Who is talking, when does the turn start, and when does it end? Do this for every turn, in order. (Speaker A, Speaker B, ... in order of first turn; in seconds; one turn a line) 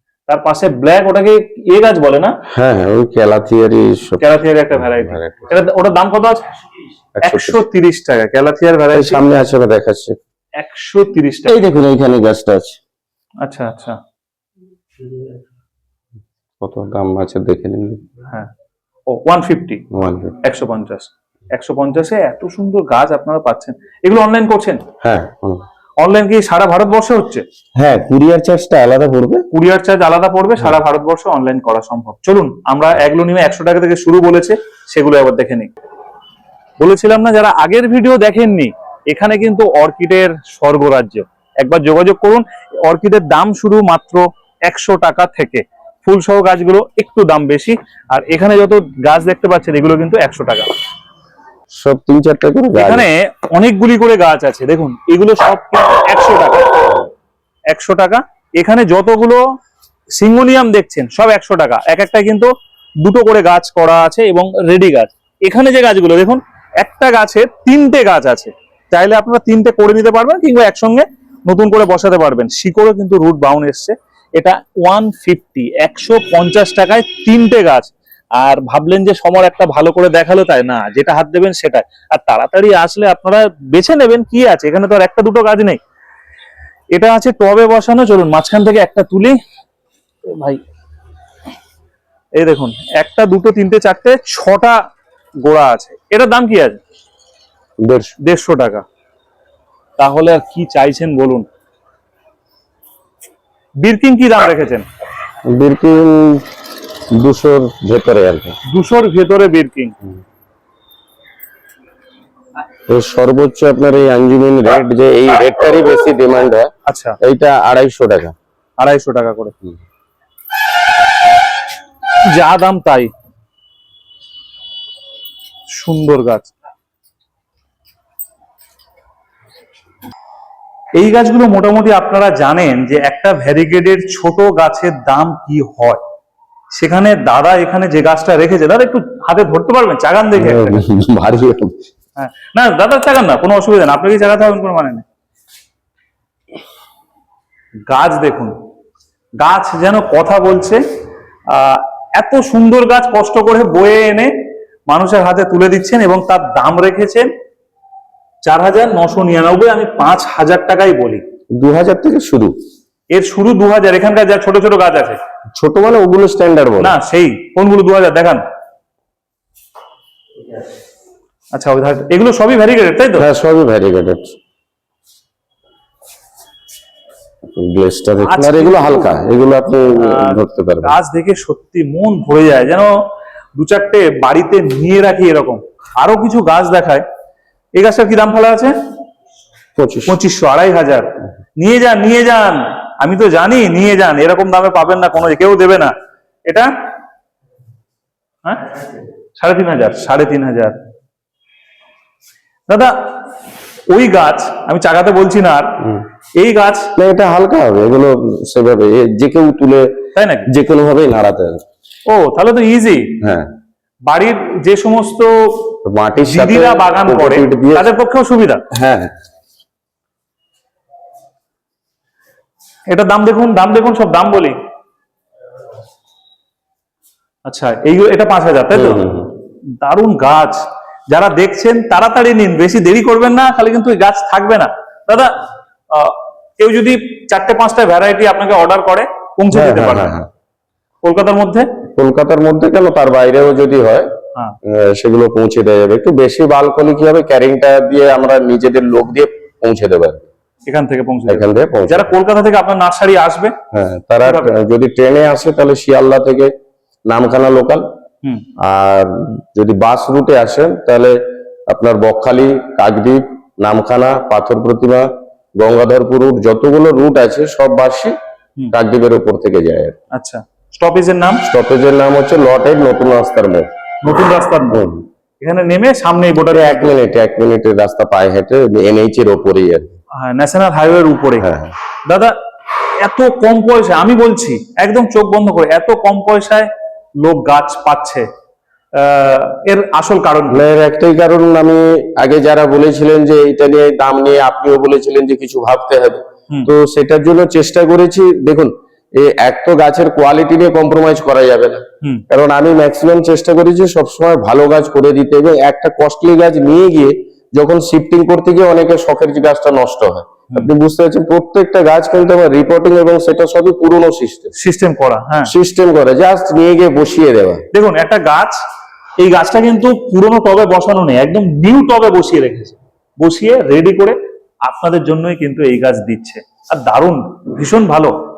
Speaker A: 0.3-2.3
Speaker B: 2.5-5.5
Speaker A: 4.2-6.5
Speaker B: 7.2-7.6
Speaker A: 7.2-9.2
Speaker B: 8.9-10.2
Speaker A: 10.6-11.6
Speaker B: 11.4-12.8
Speaker A: 13.4-14.0
Speaker B: 16.6-18.0
Speaker A: 19.1-19.8
Speaker B: 19.9-20.4
Speaker A: 20.4-24.8
Speaker B: 25.0-25.6
Speaker A: 26.0-27.4
Speaker B: 27.8-29.5
Speaker A: 29.5-35.7
Speaker A: 36.8-50.7
Speaker B: 51.7-53.1
Speaker A: 52.7-57.0
Speaker A: 57.7-59.4
Speaker A: 60.1-85.8
Speaker A: 86.9-89.4
Speaker A: 90.2-90.6
Speaker A: 92.4-94.8
Speaker A: 95.4-96.8
Speaker B: 97.8-98.1
Speaker A: 98.2-98.8
Speaker A: 100.0-101.5
Speaker A: 103.8-104.8
Speaker B: 105.5-106.5
Speaker B: 107.1-108.6
Speaker A: 108.7-110.0
Speaker B: 112.9-118.3
Speaker A: 116.9-117.2
Speaker A: 118.8-119.5
Speaker A: 122.2-123.1
Speaker A: 125.7-126.5
Speaker A: 131.0-136.0
Speaker A: 136.7-140.8
Speaker B: 140.4-141.8
Speaker A: 142.2-145.0
Speaker A: 147.9-148.5
Speaker A: 149.4-150.8
Speaker A: 151.5-154.3
Speaker A: 154.9-157.3
Speaker A: 158.4-161.2
Speaker B: 161.5-162.5
Speaker A: 163.1-165.2
Speaker B: 165.5-167.0
Speaker A: 166.8-168.4
Speaker A: 171.5-173.2
Speaker B: 173.2-174.3
Speaker B: 177.5-181.0
Speaker A: 178.2-179.1
Speaker A: 179.9-187.0
Speaker A: 187.8-188.7
Speaker B: 189.8-190.2
Speaker A: 190.1-195.9
Speaker A: 198.4-198.8
Speaker A: 199.4-200.8
Speaker A: 202.7-203.1
Speaker A: 203.9-205.8
Speaker A: 206.3-206.9
Speaker B: 206.9-211.6
Speaker A: 210.1-210.5
Speaker A: 212.1-213.1
Speaker B: 213.2-213.5
Speaker A: 214.1-218.6
Speaker B: 215.8-217.9
Speaker B: 218.7-219.1
Speaker A: 222.9-224.6
Speaker A: 227.4-229.0
Speaker B: 228.7-229.3
Speaker A: 229.8-240.1
Speaker B: 239.5-240.3
Speaker A: 241.0-241.7
Speaker B: 241.9-244.1
Speaker B: 244.6-250.2
Speaker A: 250.7-253.5
Speaker B: 251.3-252.1
Speaker B: 253.7-256.5
Speaker A: 254.2-254.5
Speaker B: 257.1-257.8
Speaker B: 258.6-261.2
Speaker B: 261.7-268.1
Speaker B: 268.7-269.9
Speaker A: 270.1-271.4
Speaker B: 271.4-273.7
Speaker A: 274.0-274.9
Speaker B: 274.7-275.0
Speaker A: 275.4-276.9
Speaker B: 276.5-279.9
Speaker A: 280.1-281.5
Speaker B: 281.4-281.7
Speaker A: 282.1-282.3
Speaker A: 283.0-288.3
Speaker A: 288.9-290.6
Speaker B: 290.5-314.5
Speaker A: 314.6-315.5
Speaker B: 315.4-317.6
Speaker A: 317.7-318.6
Speaker A: 319.2-328.1